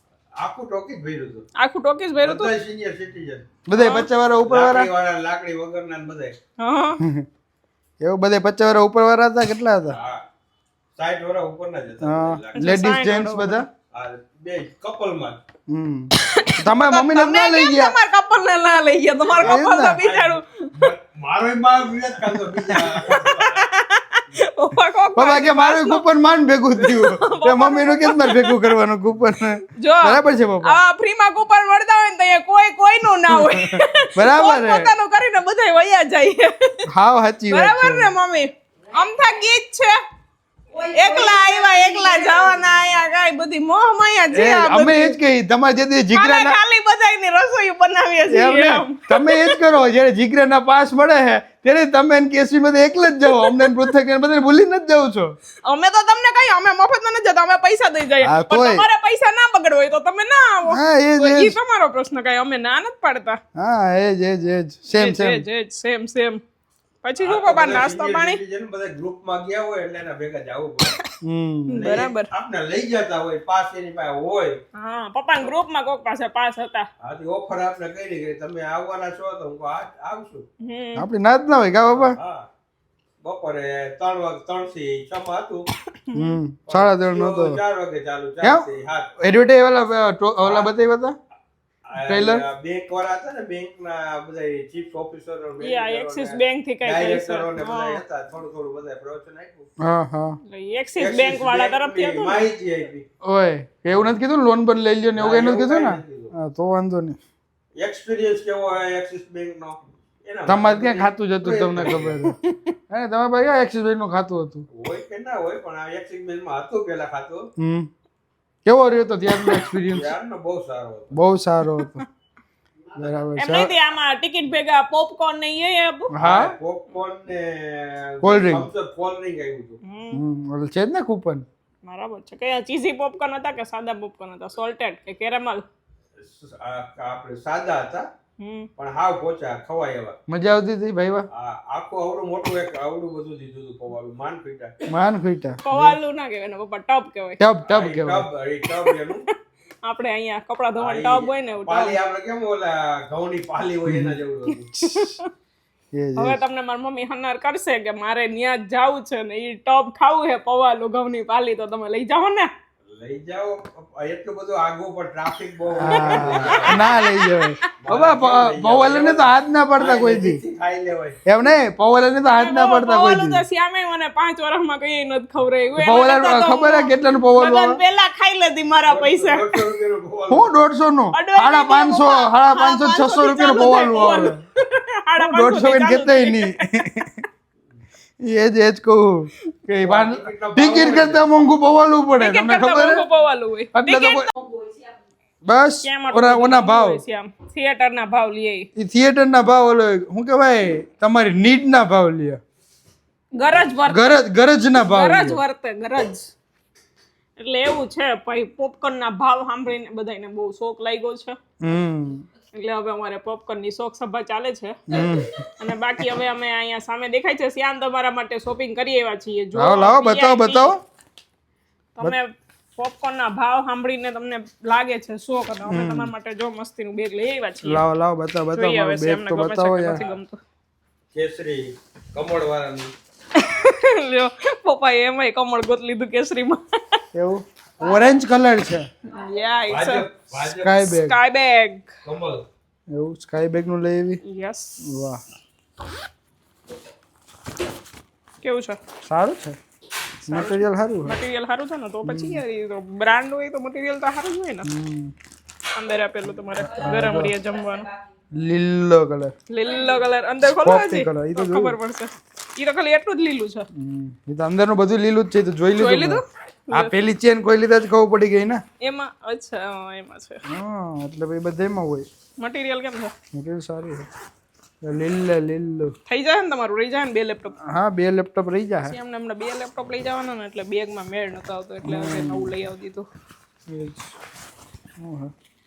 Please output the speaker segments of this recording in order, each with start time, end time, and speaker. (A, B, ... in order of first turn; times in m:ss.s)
0:00.4-0:01.5 A
0:01.6-0:02.5 B
0:02.2-0:03.5 A
0:03.7-0:04.9 C
0:03.7-0:04.1 B
0:04.5-0:06.4 A
0:06.6-0:07.0 B
0:08.0-0:10.0 C
0:09.8-0:10.2 A
0:11.0-0:12.6 A
0:12.0-0:13.7 C
0:12.6-0:13.6 B
0:13.9-0:15.4 A
0:15.7-0:18.0 C
0:16.3-0:20.7 B
0:19.4-0:23.7 A
0:19.4-0:20.0 C
0:22.6-0:26.0 B
0:25.2-0:30.8 C
0:26.8-0:28.8 B
0:29.8-0:36.8 B
0:33.3-0:34.9 C
0:36.9-0:38.1 C
0:37.5-0:40.0 B
0:40.8-0:45.2 B
0:44.3-0:46.6 C
0:46.1-0:49.6 B
0:48.3-0:55.3 C
0:53.3-0:53.8 B
0:55.6-1:03.4 B
0:58.2-0:58.8 C
1:00.7-1:01.6 C
1:03.6-1:05.4 C
1:04.9-1:06.4 B
1:07.0-1:08.4 B
1:07.2-1:11.0 A
1:11.2-1:11.9 C
1:11.7-1:12.3 B
1:11.7-1:14.6 A
1:14.7-1:16.9 B
1:17.0-1:20.4 A
1:20.6-1:21.1 B
1:21.0-1:22.2 C
1:21.9-1:22.5 A
1:23.2-1:25.7 A
1:26.0-1:26.4 B
1:26.1-1:27.6 C
1:26.7-1:29.1 A
1:29.2-1:31.2 C
1:30.4-1:30.7 A
1:31.9-1:39.7 A
1:32.0-1:32.4 C
1:35.6-1:38.0 B
1:39.8-1:40.4 C
1:40.5-1:42.5 B
1:41.0-1:43.1 A
1:43.2-1:47.2 C
1:43.9-1:44.2 A
1:45.2-1:46.3 A
1:47.8-1:52.3 A
1:50.5-1:52.4 C
1:52.9-1:54.6 C
1:54.7-1:57.5 A
1:57.6-1:57.9 C
1:58.7-2:00.1 C
1:59.9-2:01.1 A
2:01.1-2:02.0 C
2:01.7-2:02.0 B
2:03.0-2:03.7 C
2:03.4-2:06.1 B
2:06.1-2:06.5 C
2:06.2-2:09.8 A
2:08.2-2:08.7 C
2:09.8-2:10.2 B
2:10.1-2:11.4 C
2:11.8-2:15.6 B
2:16.2-2:18.1 A
2:18.4-2:18.7 B
2:18.8-2:20.2 A
2:20.3-2:21.3 C
2:21.3-2:24.7 A
2:24.9-2:26.0 C
2:25.6-2:27.4 B
2:27.4-2:28.3 C
2:27.7-2:29.2 A
2:28.8-2:29.3 B
2:29.8-2:32.0 B
2:30.8-2:34.7 A
2:33.9-2:34.2 C
2:34.8-2:35.3 B
2:35.9-2:36.4 C
2:36.2-2:42.5 B
2:42.9-2:46.9 A
2:45.8-2:50.4 C
2:45.9-2:47.5 B
2:47.8-2:51.2 A
2:51.3-2:53.4 C
2:52.3-2:59.6 B
2:55.8-2:57.8 C
2:58.9-3:00.5 A
3:00.3-3:04.4 C
3:01.1-3:07.0 B
3:05.2-3:07.2 C
3:08.2-3:13.0 C
3:09.8-3:11.3 A
3:12.2-3:14.3 B
3:13.7-3:14.3 C
3:15.4-3:17.0 C
3:15.8-3:18.7 B
3:18.8-3:22.4 C
3:23.4-3:24.2 B
3:23.9-3:25.4 C
3:24.7-3:26.3 B
3:27.4-3:31.4 B
3:31.6-3:32.3 C
3:32.5-3:34.8 B
3:34.9-3:35.3 C
3:35.6-3:40.8 B
3:39.5-3:40.8 C
3:42.0-3:47.8 B
3:45.7-3:46.1 C
3:47.6-3:50.0 C
3:48.5-3:50.4 B
3:51.1-3:52.9 A
3:53.4-3:57.0 B
3:57.1-3:58.9 C
3:59.1-4:00.1 B
3:59.7-4:00.8 A
4:00.6-4:01.2 C
4:00.8-4:01.9 B
4:02.0-4:02.4 A
4:02.9-4:04.2 C
4:04.2-4:05.0 B
4:04.8-4:05.2 C
4:08.4-4:08.8 B
4:09.0-4:09.6 C
4:10.3-4:14.7 B
4:10.3-4:11.2 C
4:12.0-4:12.4 C
4:14.6-4:15.1 C
4:15.7-4:17.9 B
4:16.6-4:17.3 C
4:18.4-4:19.3 C
4:19.5-4:23.7 B
4:20.6-4:21.8 C
4:23.7-4:28.6 C
4:25.8-4:27.0 B
4:28.8-4:30.4 B
4:30.5-4:32.1 C
4:32.4-4:33.1 B
4:33.3-4:34.1 C
4:34.8-4:35.9 C
4:36.1-4:37.6 B
4:37.6-4:39.0 C
4:38.8-4:43.1 B
4:41.8-4:42.5 C
4:43.7-4:44.1 C
4:45.0-4:45.3 C